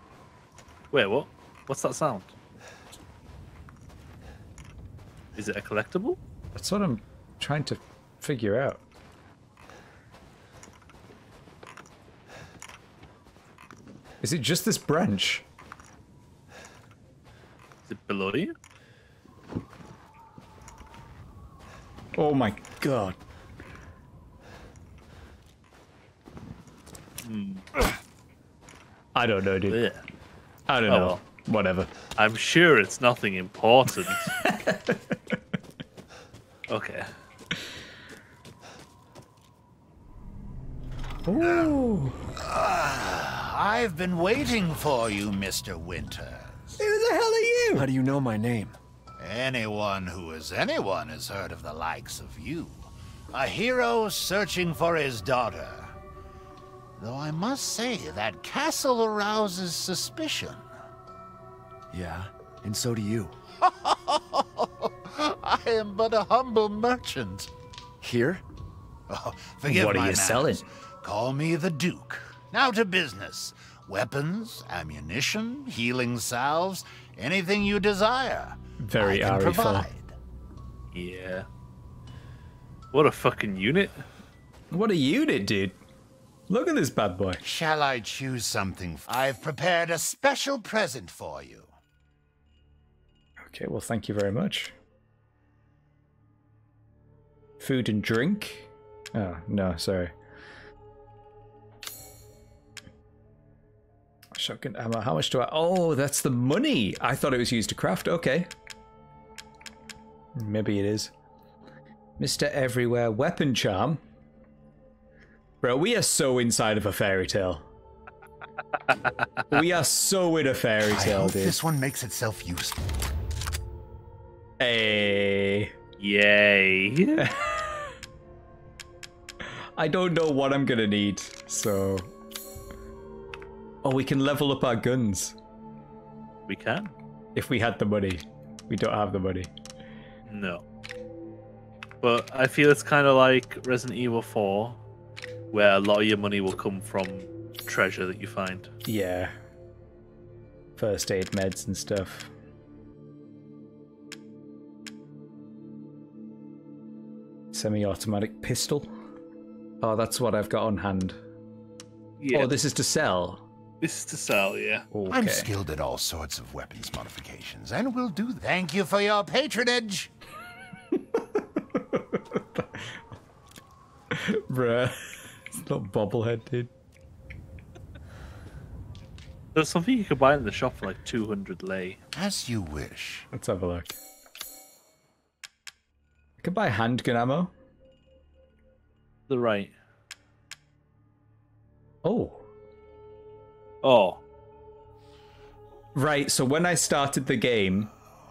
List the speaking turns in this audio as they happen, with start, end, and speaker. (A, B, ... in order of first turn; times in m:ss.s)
0:00.9-0:02.3 A
0:05.4-0:06.2 A
0:06.5-0:08.8 B
0:14.2-0:15.4 B
0:17.9-0:18.5 A
0:22.2-0:23.2 B
0:27.2-0:27.6 A
0:29.1-0:29.8 B
0:29.7-0:30.0 A
0:30.7-0:31.9 B
0:30.9-0:31.2 A
0:32.2-0:34.3 A
0:34.4-0:35.1 B
0:36.7-0:37.1 A
0:41.2-0:42.2 B
0:41.4-0:41.7 C
0:42.4-0:46.8 C
0:46.8-0:47.9 B
0:47.7-0:48.8 D
0:49.2-0:55.9 C
0:57.0-1:00.6 C
1:01.9-1:03.3 D
1:03.6-1:07.5 C
1:08.0-1:08.4 D
1:09.1-1:20.1 C
1:09.7-1:10.6 B
1:18.8-1:19.9 B
1:20.9-1:21.4 A
1:22.9-1:24.0 A
1:24.7-1:25.8 B
1:26.5-1:27.4 B
1:27.4-1:31.7 C
1:33.4-1:34.7 B
1:37.6-1:40.1 B
1:44.3-1:48.5 B
1:50.4-1:51.1 B
1:52.2-1:54.0 B
1:55.6-1:57.7 B
1:59.5-2:01.6 B
2:00.8-2:02.8 C
2:04.6-2:05.7 B
2:06.0-2:07.2 A
2:07.2-2:08.0 B
2:09.8-2:12.1 B
2:13.8-2:15.4 B
2:16.5-2:16.9 A
2:17.3-2:19.5 B
2:20.3-2:20.6 A
2:22.0-2:24.8 A
2:25.5-2:28.7 A
2:28.8-2:29.3 B
2:30.8-2:32.3 B
2:37.5-2:38.9 B
2:39.8-2:41.2 B
2:42.2-2:42.5 A
2:42.3-2:43.4 B
2:43.8-2:44.8 A
2:44.9-2:45.5 B
2:45.1-2:50.1 C
2:50.9-2:53.0 B
2:54.1-2:56.7 B
2:59.5-3:02.0 A
3:02.1-3:03.3 C
3:03.3-3:04.0 B
3:06.4-3:07.5 B
3:09.3-3:09.7 A
3:12.0-3:12.4 B
3:13.8-3:14.2 A
3:15.9-3:17.9 B